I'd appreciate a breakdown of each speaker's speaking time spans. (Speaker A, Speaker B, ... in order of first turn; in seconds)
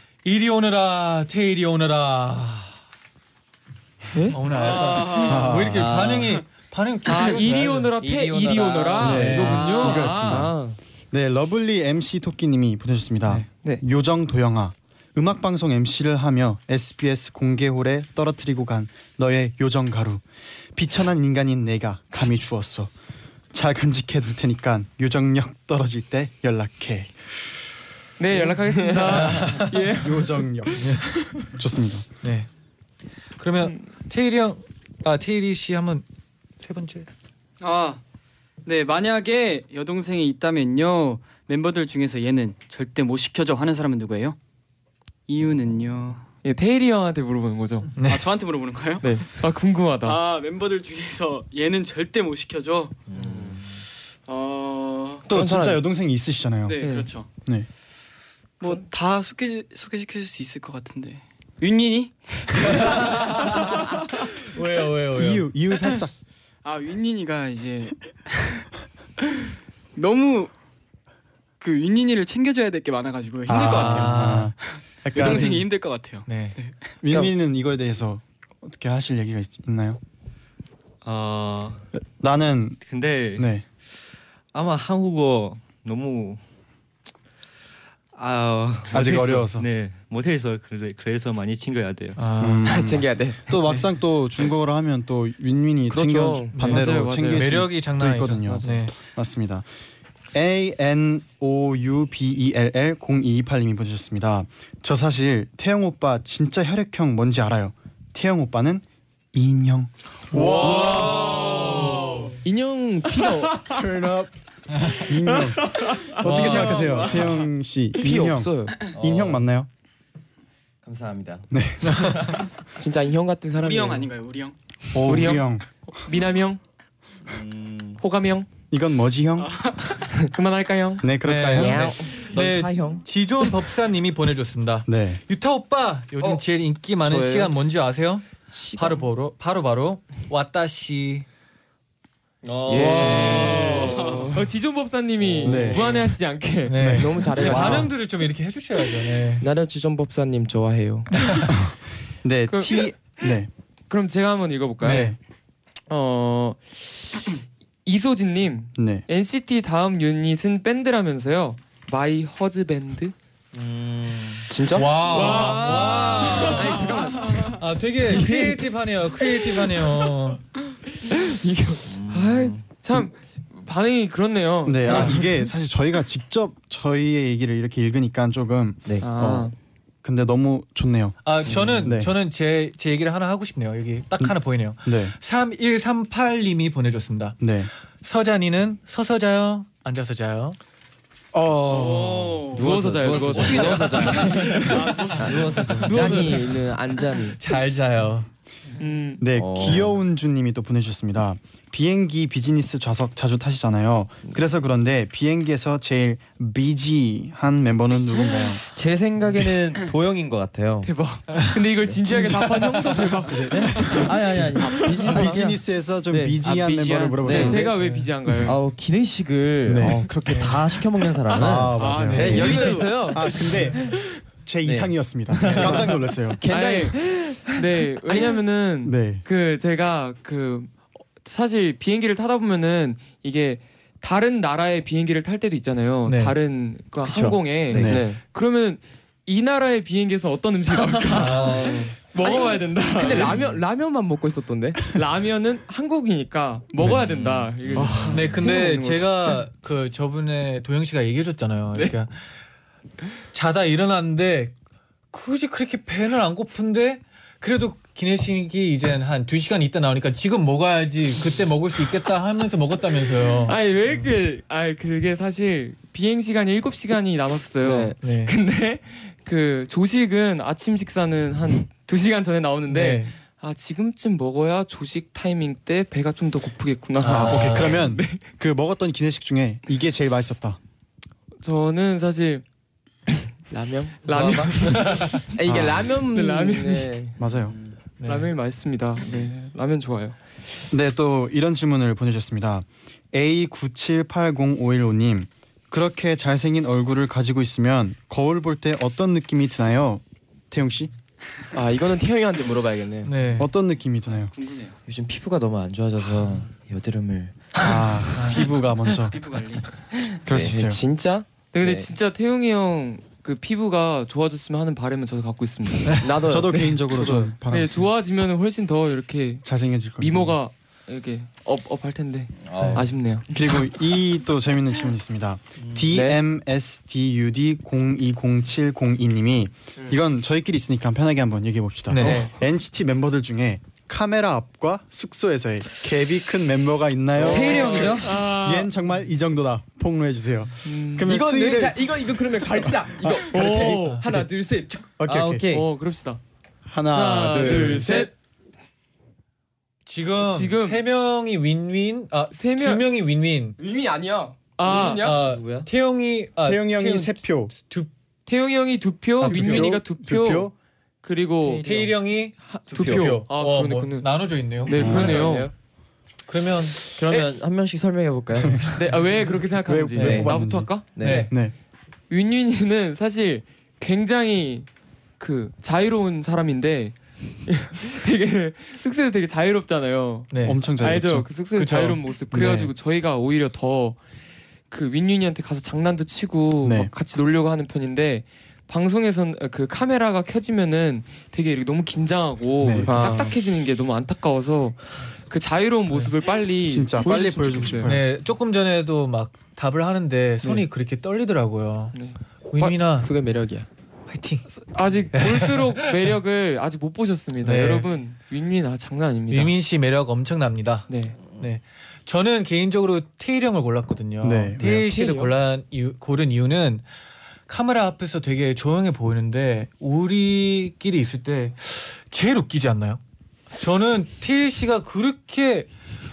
Speaker A: 0.2-2.8, 4.3-7.9, 9.0-10.0, 29.1-29.8, 30.8-31.1, 32.2-32.5, 33.4-36.1, 36.6-37.1, 48.0-48.2, 62.6-63.9, 64.5-65.5, 73.7-74.5, 76.3-76.6, 92.2-92.8, 96.5-98.9, 110.3-112.3, 116.2-117.0, 121.8-122.2, 131.2-141.3, 146.7-149.4, 151.2-151.5, 154.8-155.2, 164.7-170.4, 174.8-175.2, 181.2-187.4, 188.0-190.6, 193.3-195.2, 195.9-196.3, 197.4-198.3, 212.1-213.1, 217.8-218.1, 220.3-220.5, 236.1-236.4, 241.1-241.8, 248.1-252.2, 253.3-254.6, 255.1-263.6, 268.0-268.4, 272.7-273.1, 277.0-277.8, 284.2-285.2, 288.0-288.3, 303.1-303.5, 308.2-308.4, 322.6-322.8, 331.9-332.3, 349.9-353.6, 355.0-357.9, 359.3-359.7, 361.6-365.3, 366.3-366.9, 371.0-371.3, 380.3-380.6, 381.6-382.7, 397.9-401.9, 402.5-403.1, 404.1-404.5, 405.1-406.1, 407.4-407.9, 409.3-416.9, 417.5-423.0, 423.6-425.7
Speaker B: 4.5-5.4, 37.6-38.0, 38.6-44.4, 45.3-46.2, 48.0-49.1, 50.0-53.0, 54.3-55.3, 56.7-57.3, 58.6-64.0, 66.6-68.7, 70.0-70.5, 71.6-76.9, 111.2-111.8, 116.4-117.3, 123.6-124.6, 129.4-129.9, 143.2-144.3, 191.7-192.8, 194.7-195.4, 214.6-215.4, 221.8-223.1, 304.1-304.8, 309.1-309.7
Speaker C: 5.2-6.0, 9.0-10.5, 11.1-20.2, 20.7-22.9, 23.5-27.2, 29.9-32.1, 55.3-56.8, 65.2-66.1, 73.5-75.7, 77.0-80.0, 82.0-82.8, 83.4-83.7, 88.9-89.7, 92.4-99.7, 100.3-111.9, 113.6-119.7, 121.5-122.4, 124.9-125.7, 128.7-129.6, 131.0-132.0, 134.9-135.2, 145.4-146.1, 146.8-147.9, 151.5-153.5, 154.8-155.2, 158.8-159.1, 174.7-182.1, 184.8-185.1, 187.4-187.7, 191.3-192.5, 199.2-208.6, 213.3-214.4, 215.1-217.8, 219.7-220.5, 221.3-226.4, 228.8-229.2, 237.7-238.1, 246.8-247.0, 277.0-280.6, 285.5-285.9, 287.2-287.6, 290.7-300.9, 303.4-304.3, 307.6-309.2, 310.2-310.8, 316.2-317.9, 319.4-320.4, 323.3-344.3, 345.0-345.5, 346.7-348.1, 356.4-357.5, 359.2-360.5, 364.7-365.3, 368.4-368.8, 369.6-371.5, 380.4-381.3, 386.6-386.9, 392.6-392.9, 396.7-398.1, 414.2-415.0
Speaker D: 5.7-6.4, 8.0-9.0, 53.1-53.6, 118.9-119.4, 120.8-121.5, 127.3-128.0, 131.6-133.0, 142.4-144.1, 145.3-145.8, 163.5-164.5, 171.8-172.5, 181.5-181.8, 192.5-196.4, 199.3-199.9, 208.7-210.9, 213.5-217.6, 218.4-222.8, 224.7-225.9, 241.5-241.8, 304.9-307.6, 310.3-310.6, 322.4-322.9, 325.6-325.9, 337.2-338.1, 345.0-345.7, 355.2-355.7, 367.0-368.7, 370.0-370.4, 370.9-371.3
Speaker E: 7.0-10.5, 13.3-13.8, 28.2-31.5, 46.4-47.9, 49.0-50.2, 56.8-57.1, 96.6-97.4, 98.5-98.7, 125.0-126.6, 128.0-128.5, 130.2-131.1, 142.7-147.2, 152.5-152.8, 153.9-155.1, 155.9-163.1, 165.0-167.1, 171.1-175.4, 179.0-179.6, 192.6-196.4, 198.8-199.2, 210.8-215.4, 217.0-218.6, 226.5-243.4, 244.9-249.3, 263.5-278.2, 281.4-282.4, 284.1-286.9, 288.0-290.2, 311.5-316.1, 317.5-323.3, 337.2-338.7, 340.6-341.2, 343.3-344.2, 345.4-346.2, 346.9-348.1, 350.2-350.9, 352.3-352.8, 354.6-355.1, 358.3-361.8, 362.5-364.1, 364.6-365.5, 368.8-371.3, 372.1-374.7, 375.2-384.0, 384.7-397.9, 401.9-402.8, 404.7-409.5, 410.9-411.2
Speaker F: 8.9-9.2, 9.7-10.8, 55.3-55.8, 92.7-93.8, 95.9-96.6, 112.4-113.6, 118.0-118.9, 122.8-124.1, 137.0-137.5, 138.5-139.0, 142.7-144.4, 147.0-147.9, 149.4-151.1, 164.5-168.6, 193.4-197.4, 222.1-223.6, 225.6-227.5, 228.1-228.4, 237.1-238.2, 241.2-245.0, 247.7-248.5, 267.6-267.9, 283.5-287.2, 301.5-303.3, 310.3-311.3, 315.9-317.3, 325.9-326.2, 332.0-332.3, 337.2-338.1, 341.1-345.0, 353.6-355.3, 361.5-361.9, 364.7-365.5, 392.9-393.3, 403.0-403.7, 414.9-415.3
Speaker G: 81.0-81.8, 82.9-83.5, 84.5-86.4, 88.1-92.3